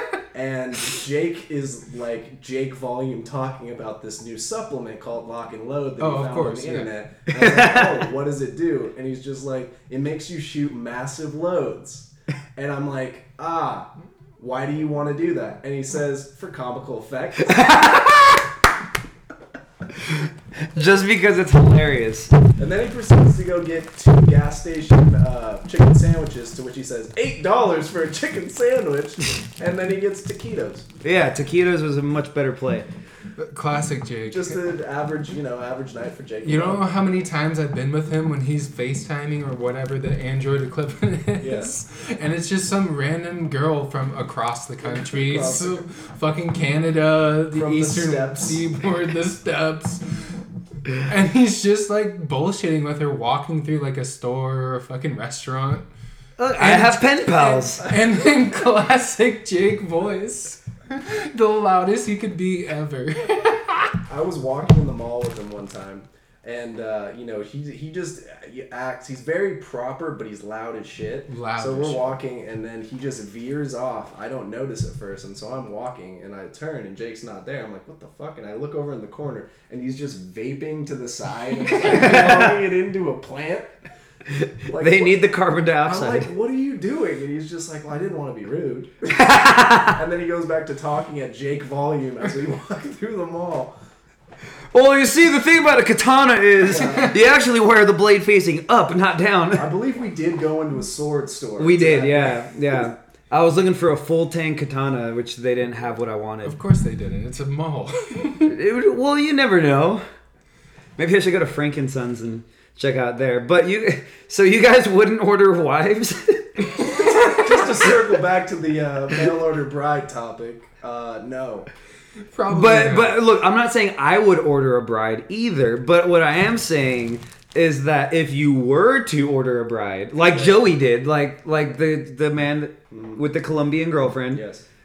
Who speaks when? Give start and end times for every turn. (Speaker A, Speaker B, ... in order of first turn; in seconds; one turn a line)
Speaker A: 0.3-17.6
Speaker B: 6.0-6.9
Speaker C: 7.3-8.0
Speaker C: 17.4-18.4
Speaker C: 20.1-22.3
Speaker A: 22.6-30.9
Speaker C: 31.0-32.9
Speaker B: 33.4-34.6
Speaker A: 34.3-36.9
Speaker B: 36.4-50.0
Speaker A: 41.4-41.7
Speaker A: 44.8-45.8
Speaker A: 47.5-48.6
Speaker B: 50.9-55.9
Speaker C: 56.4-57.8
Speaker B: 56.6-57.2
Speaker A: 57.5-58.0
Speaker B: 57.8-63.9
Speaker A: 64.1-83.7
Speaker B: 71.3-72.1
Speaker C: 81.8-82.5
Speaker C: 84.3-86.3
Speaker A: 84.7-89.1
Speaker C: 89.1-90.0
Speaker A: 89.9-93.7
Speaker C: 94.7-99.7
Speaker A: 96.7-97.2
Speaker A: 99.5-102.9
Speaker C: 101.6-106.5
Speaker B: 106.4-108.5
Speaker C: 108.4-110.0
Speaker C: 111.0-117.8
Speaker A: 117.0-121.7
Speaker B: 122.3-123.2
Speaker C: 122.5-134.4
Speaker A: 130.3-130.6
Speaker A: 132.9-133.2
Speaker A: 134.3-134.7